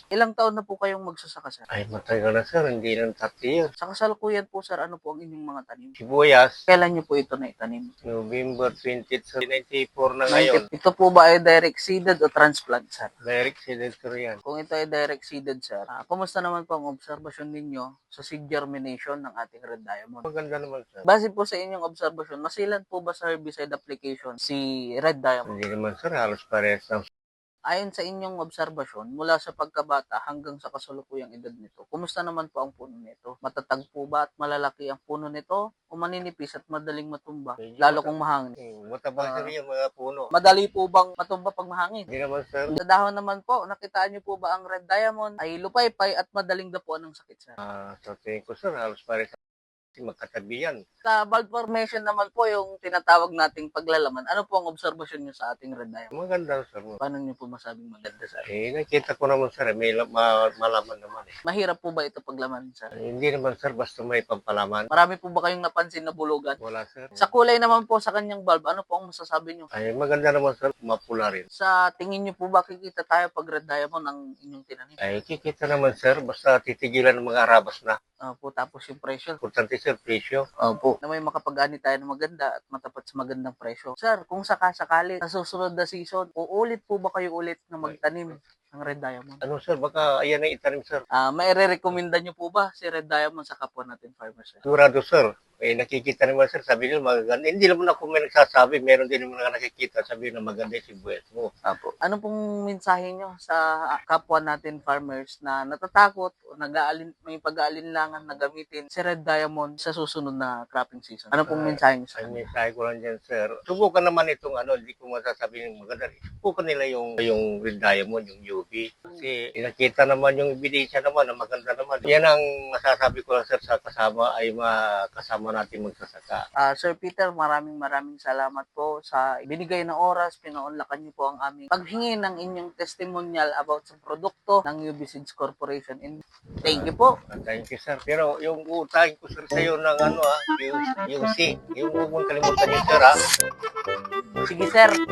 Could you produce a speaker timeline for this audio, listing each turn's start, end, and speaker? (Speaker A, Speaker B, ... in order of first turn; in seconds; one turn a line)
Speaker A: 0.1-1.7
Speaker B: 1.7-3.7
Speaker A: 3.8-6.0
Speaker B: 6.0-6.6
Speaker A: 6.7-7.9
Speaker B: 8.1-10.7
Speaker A: 10.3-13.1
Speaker B: 13.2-14.4
Speaker A: 14.4-20.2
Speaker B: 20.2-21.1
Speaker A: 21.1-25.6
Speaker B: 25.5-27.0
Speaker A: 27.7-38.5
Speaker B: 37.6-40.3
Speaker A: 39.2-39.5
Speaker A: 40.3-42.1
Speaker B: 42.1-42.7
Speaker A: 42.7-47.6
Speaker B: 47.6-49.3
Speaker B: 50.0-50.8
Speaker A: 51.0-56.1
Speaker B: 56.1-57.0
Speaker A: 57.0-58.5
Speaker B: 58.5-61.3
Speaker A: 61.5-62.9
Speaker B: 63.0-64.9
Speaker A: 64.9-66.6
Speaker B: 66.6-67.3
Speaker A: 67.2-69.7
Speaker B: 69.7-71.5
Speaker A: 71.5-75.0
Speaker B: 75.0-78.0
Speaker A: 78.3-79.4
Speaker B: 79.4-80.4
Speaker A: 80.6-89.4
Speaker B: 89.4-91.0
Speaker A: 91.2-94.6
Speaker B: 94.7-101.5
Speaker A: 101.7-112.5
Speaker B: 111.5-126.4
Speaker A: 126.6-137.2
Speaker B: 136.7-143.1
Speaker A: 144.5-145.0